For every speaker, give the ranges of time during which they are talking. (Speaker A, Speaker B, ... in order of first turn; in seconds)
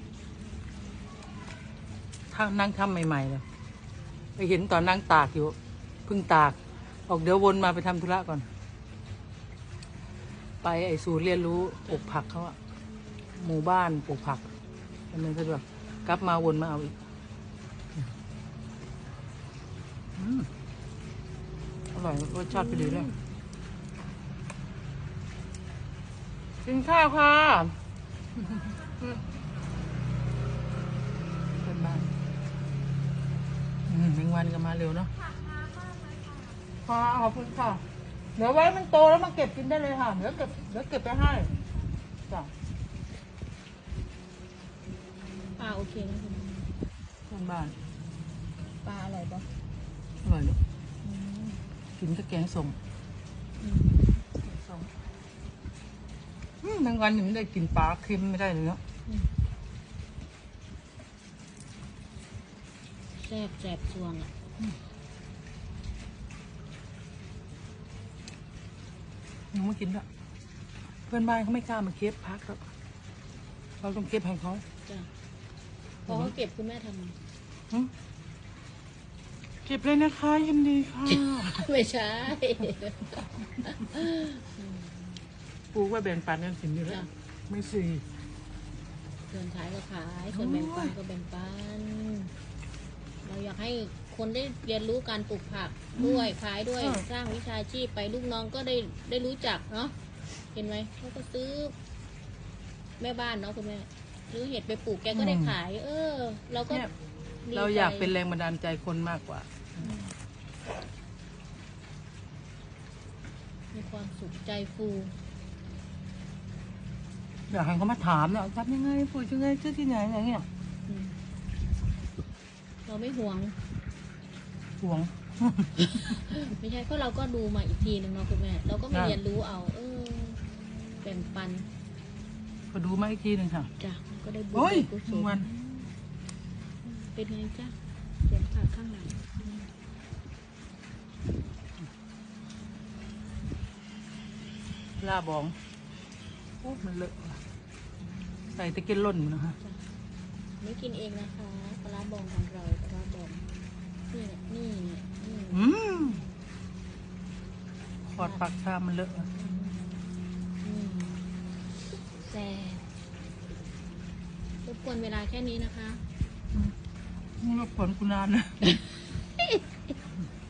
Speaker A: 2.3-3.4, 4.4-8.5, 10.6-12.6, 13.3-14.5, 15.1-17.0, 20.2-20.5, 21.9-23.1, 26.6-27.8, 28.4-29.2, 31.6-32.1, 33.9-35.1, 36.8-37.8, 38.4-41.5, 47.3-47.8, 50.2-50.6, 52.0-52.8, 54.4-54.9, 56.6-58.8, 69.5-70.0, 71.1-72.7, 73.8-74.6, 76.1-76.3, 79.6-81.7, 85.7-88.0, 90.3-90.9, 96.0-97.0, 105.1-105.6, 107.5-109.5, 117.5-120.5, 124.8-126.2, 128.9-129.2, 132.7-133.7, 134.5-135.5, 145.0-145.6, 146.6-147.4, 148.5-149.6, 155.5-156.2, 158.1-159.3, 167.4-168.6
Speaker B: 22.5-23.1, 45.5-46.6, 48.8-49.5, 51.0-51.6, 53.6-54.0, 63.1-64.3, 76.1-77.2, 81.1-85.2, 89.3-92.3, 93.2-99.9, 100.5-101.7, 103.0-106.8, 107.4-108.1, 109.8-110.1, 113.7-115.1, 120.9-121.2, 122.8-123.6, 125.8-130.4, 131.0-131.7, 133.8-135.9, 136.8-139.7, 150.6-153.5, 154.1-155.7, 159.3-159.9, 160.6-161.2, 162.2-162.8, 164.6-166.0, 168.6-169.6